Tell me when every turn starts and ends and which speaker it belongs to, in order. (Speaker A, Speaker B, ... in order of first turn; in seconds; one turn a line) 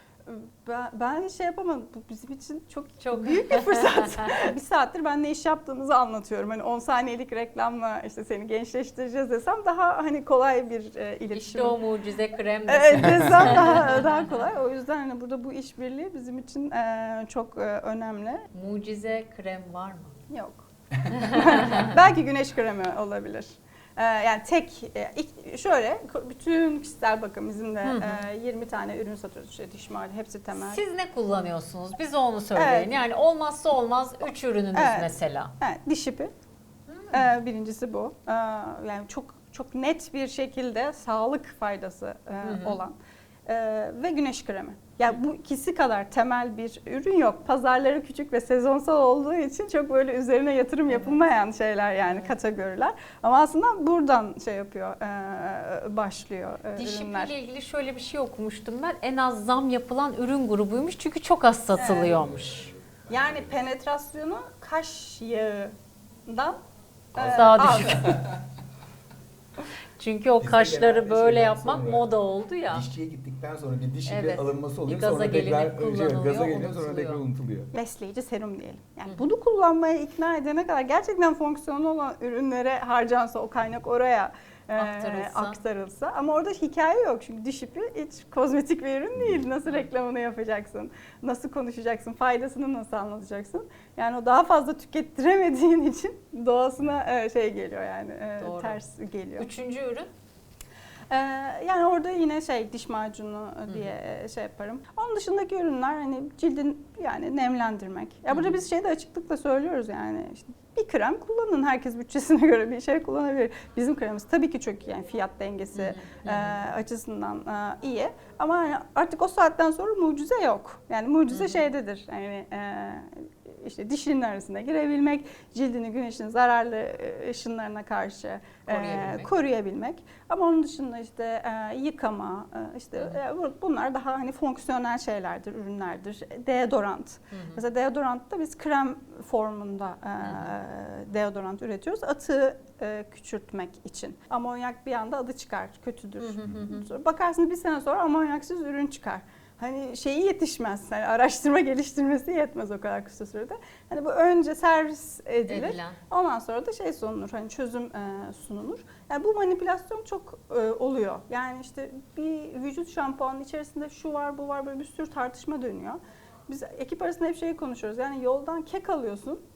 Speaker A: 0.2-11.8
Speaker B: 3.0-4.0
Speaker B: 11.3-14.0
Speaker A: 12.7-18.4
Speaker B: 18.5-20.1
Speaker A: 20.3-30.8
Speaker B: 21.1-21.9
Speaker B: 27.8-28.2
Speaker B: 30.5-35.5
Speaker A: 32.5-32.9
Speaker A: 34.7-36.3
Speaker B: 36.9-37.3
Speaker A: 37.1-57.3
Speaker B: 42.4-42.8
Speaker B: 50.9-51.2
Speaker B: 56.8-62.7
Speaker A: 61.8-62.2
Speaker C: 61.9-63.5
Speaker A: 63.1-65.7
Speaker A: 66.3-66.6
Speaker A: 67.1-68.2
Speaker C: 67.1-68.4
Speaker B: 67.3-68.1
Speaker B: 70.0-72.9
Speaker C: 70.4-72.1
Speaker C: 72.7-77.7
Speaker B: 74.0-77.2
Speaker A: 77.7-99.5
Speaker B: 84.8-85.6
Speaker B: 98.4-98.8
Speaker B: 99.4-100.1
Speaker A: 101.1-169.4
Speaker B: 108.3-108.6
Speaker B: 115.7-116.6
Speaker B: 121.3-121.6
Speaker B: 128.7-129.3
Speaker B: 137.3-137.6
Speaker B: 140.2-140.5
Speaker B: 146.2-146.8
Speaker B: 155.5-156.0